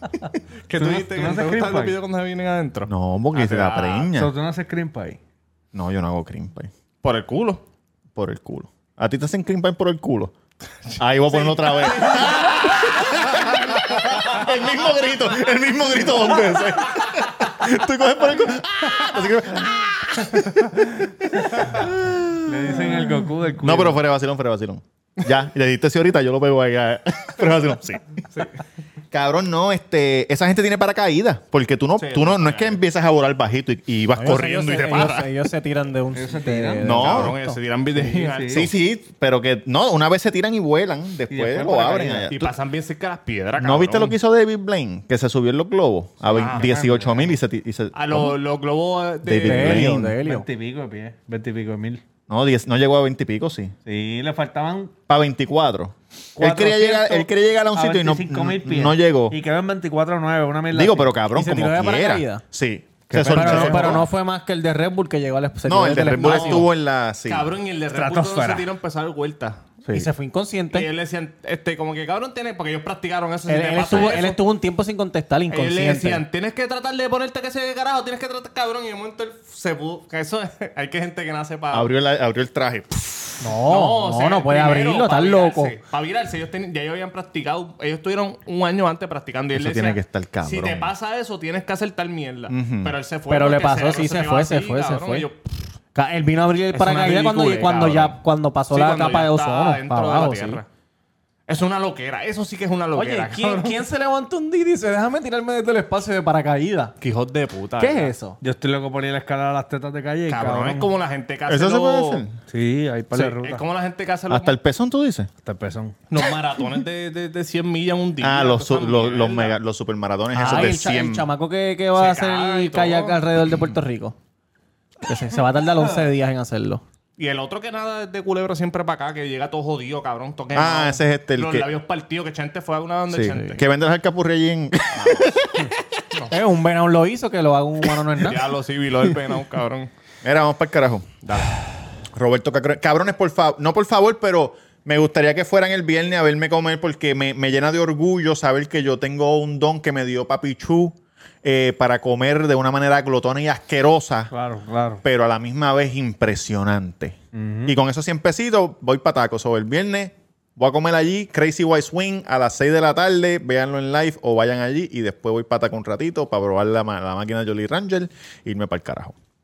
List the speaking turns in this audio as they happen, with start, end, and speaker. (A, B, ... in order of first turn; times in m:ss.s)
0:00.7-0:04.1 A
0:00.7-0:02.0 B
0:02.9-0:04.3 C
0:04.1-0:05.2 B
0:05.7-0:06.7 C
0:07.0-0:07.6 A
0:08.2-0:10.3 C
0:10.9-0:14.0 A
0:11.0-0:28.2 C
0:22.5-0:24.0 B
0:29.1-0:35.3 C
0:32.0-0:32.8 A
0:34.2-0:38.1 D
0:36.1-0:36.9 B
0:36.8-0:37.4 C
0:36.8-0:38.7 A
0:38.0-0:38.7 B
0:38.5-0:42.6 C
0:41.3-0:42.3 B
0:42.3-0:44.2 A
0:43.6-0:48.4 C
0:46.2-0:46.8 A
0:46.4-0:47.4 B
0:47.9-0:49.9 A
0:49.2-0:50.2 C
0:49.4-0:50.5 D
0:50.2-0:52.0 B
0:52.3-0:53.7 C
0:53.9-0:55.0 B
0:55.1-0:59.4 C
0:56.4-1:01.2 B
1:00.7-1:04.1 C
1:01.3-1:02.4 D
1:03.1-1:04.0 B
1:03.2-1:06.7 D
1:03.6-1:04.0 A
1:05.7-1:07.5 C
1:06.2-1:06.7 A
1:07.2-1:09.7 A
1:07.9-1:08.7 B
1:09.8-1:10.1 C
1:09.9-1:10.9 D
1:10.7-1:14.4 A
1:13.5-1:16.2 D
1:15.5-1:21.9 A
1:21.7-1:23.4 C
1:23.4-1:25.8 D
1:23.6-1:35.4 A
1:29.5-1:30.9 C
1:32.5-1:33.0 C
1:33.3-1:35.3 D
1:36.0-1:40.6 D
1:36.7-1:40.7 A
1:41.5-1:43.8 A
1:42.9-1:47.0 D
1:47.0-1:48.1 A
1:47.8-1:48.4 D
1:48.4-1:50.9 B
1:50.3-1:52.2 A
1:51.5-1:52.4 C
1:52.5-1:53.6 B
1:53.1-1:54.5 A
1:54.3-1:55.3 C
1:55.4-1:56.0 B
1:56.1-1:59.6 A
1:58.2-2:01.3 C
2:00.4-2:00.8 A
2:00.4-2:04.2 D
2:02.0-2:03.6 A
2:05.0-2:06.8 D
2:07.2-2:13.6 A
2:10.5-2:11.7 C
2:13.1-2:15.7 C
2:14.9-2:15.3 D
2:16.3-2:18.5 D
2:18.2-2:19.9 A
2:20.2-2:21.1 C
2:21.2-2:21.5 A
2:22.1-2:34.3 C
2:34.3-2:35.0 B
2:35.0-2:49.2 C
2:37.3-2:37.8 B